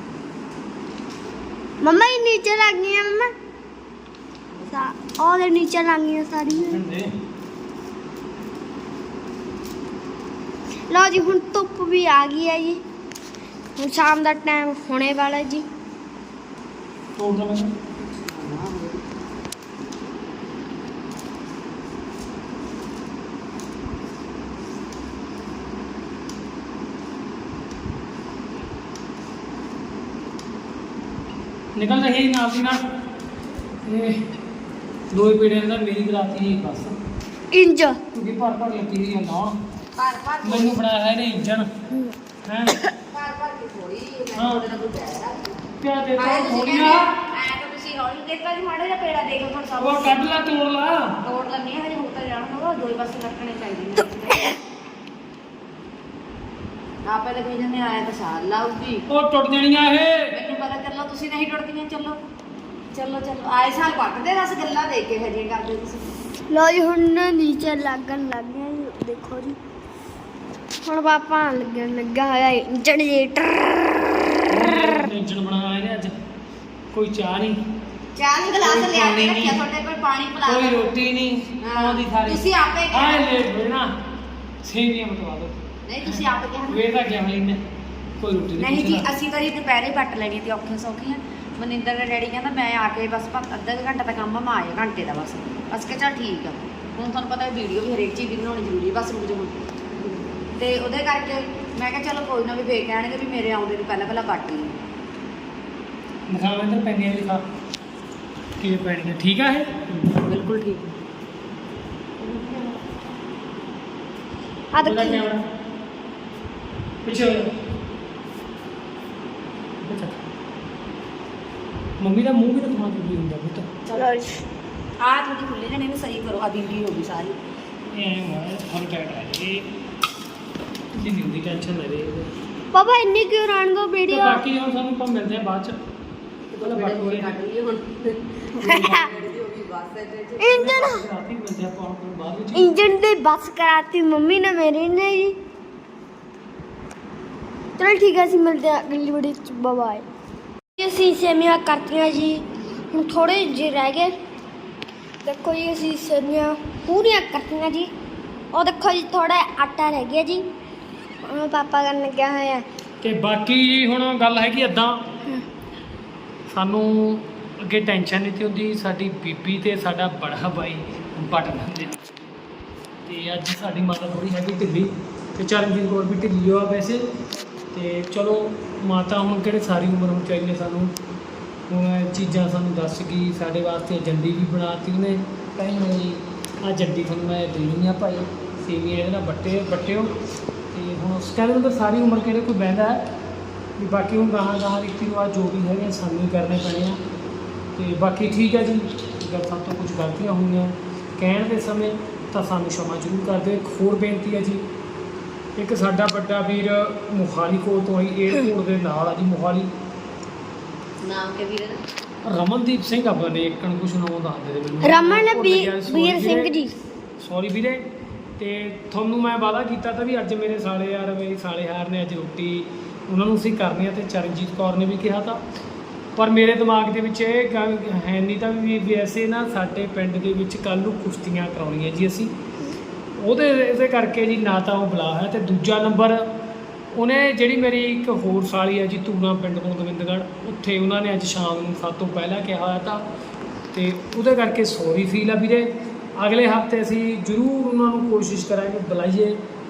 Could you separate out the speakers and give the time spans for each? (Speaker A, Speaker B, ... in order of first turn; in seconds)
Speaker A: 1.8-3.3, 4.7-6.8, 10.9-12.8, 13.8-15.7, 37.5-38.0, 66.5-69.6, 70.8-74.9, 114.7-115.3, 123.9-124.4, 132.7-134.4, 140.4-141.1, 142.5-145.4, 147.8-150.1, 150.8-154.1, 155.2-157.9, 158.5-160.5, 161.2-162.7, 214.8-216.7
Speaker B: 6.5-7.1, 17.2-17.7, 31.8-32.8, 33.9-34.2, 35.1-37.0, 38.1-39.6, 40.4-41.7, 42.5-42.8, 44.4-44.6, 45.8-47.1, 49.8-51.2, 59.1-60.4, 74.5-76.2, 76.9-77.6, 78.6-79.6, 80.5-83.9, 84.6-87.6, 88.2-89.1, 106.3-107.4, 108.6-109.9, 114.8-115.4, 117.0-117.5, 119.8-120.2, 122.0-123.7, 127.9-129.7, 130.9-132.3, 134.1-135.8, 136.6-137.3, 138.6-139.3, 140.5-142.7, 163.0-165.0, 166.5-172.1, 173.1-177.1, 177.7-180.9, 181.7-190.2, 190.7-193.0, 193.8-197.0, 197.8-204.6, 205.6-209.7, 212.2-216.5, 217.2-217.8, 218.4-225.4, 226.2-232.3, 233.2-236.3, 236.9-243.0, 243.7-249.4
Speaker C: 18.0-19.3, 40.0-40.8, 43.1-45.6, 46.2-50.2, 51.2-54.6, 57.0-59.1, 60.3-62.2, 62.9-66.1, 78.2-80.8, 81.6-83.3, 85.9-86.8, 88.6-104.8, 110.2-110.9, 112.2-113.0, 125.0-127.4, 136.5-140.6, 211.0-211.8